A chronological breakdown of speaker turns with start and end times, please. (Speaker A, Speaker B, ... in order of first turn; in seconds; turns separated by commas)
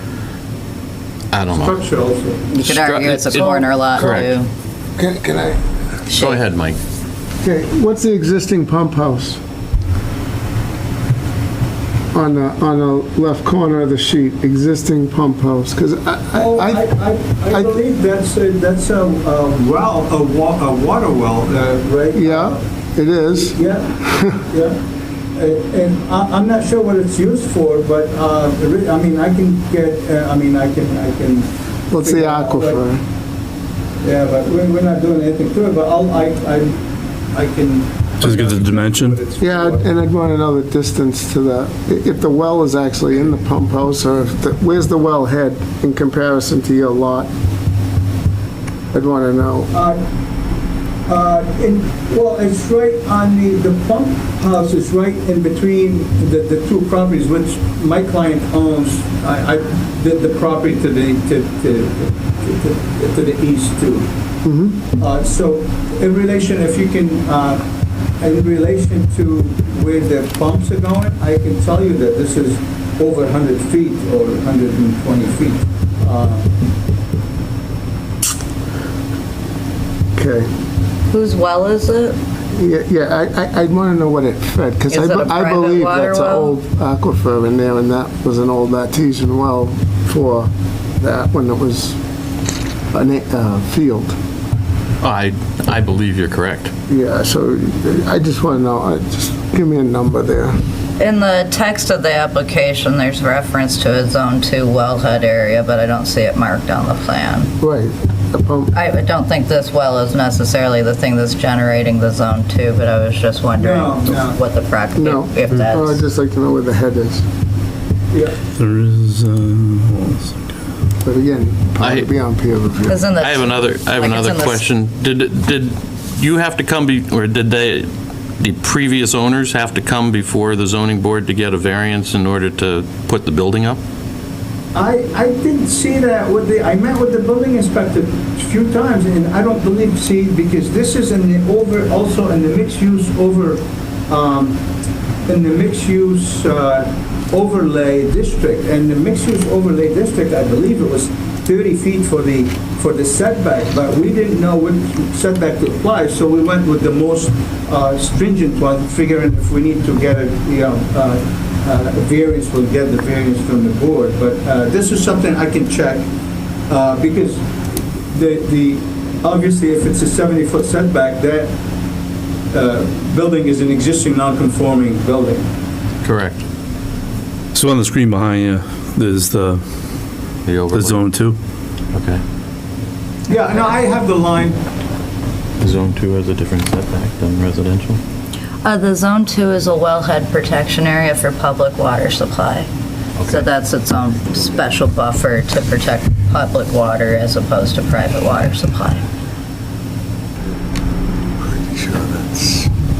Speaker A: 1.3-1.7, Speaker B: 1.5-2.5, Speaker C: 2.5-4.5, Speaker A: 2.6-4.3, Speaker D: 4.0-4.3, Speaker D: 5.0-5.6, Speaker A: 6.1-6.8, Speaker D: 7.4-9.4, Speaker D: 12.1-16.8, Speaker B: 16.4-22.6, Speaker D: 22.1-24.4, Speaker B: 23.5-24.8, Speaker B: 25.4-32.8, Speaker D: 31.9-33.0, Speaker B: 34.0-36.8, Speaker B: 37.3-39.9, Speaker E: 38.2-39.2, Speaker D: 39.4-47.3, Speaker D: 48.9-49.7, Speaker B: 49.7-50.0, Speaker B: 51.1-64.1, Speaker D: 64.4-64.8, Speaker B: 65.0-67.6, Speaker B: 68.2-76.5, Speaker D: 80.2-80.5, Speaker C: 81.1-82.2, Speaker D: 82.5-92.0, Speaker C: 84.9-86.6, Speaker D: 92.9-94.1, Speaker A: 95.0-96.7, Speaker D: 96.9-100.5, Speaker C: 101.0-107.5, Speaker D: 107.6-108.8, Speaker C: 108.7-116.0, Speaker B: 113.6-114.4, Speaker D: 115.0-117.2, Speaker E: 118.5-120.4, Speaker D: 121.0-123.0, Speaker A: 121.8-122.1, Speaker C: 122.9-124.6, Speaker A: 123.2-133.8, Speaker B: 134.7-144.6, Speaker B: 145.2-166.1, Speaker B: 166.7-171.5, Speaker B: 172.5-175.4, Speaker A: 176.0-176.4, Speaker E: 177.5-179.6, Speaker A: 180.4-181.0, Speaker E: 180.7-181.4, Speaker A: 181.9-182.2, Speaker B: 183.3-184.6, Speaker A: 185.6-188.0, Speaker C: 188.6-192.7, Speaker A: 193.2-193.4, Speaker C: 193.2-199.0, Speaker D: 201.6-202.3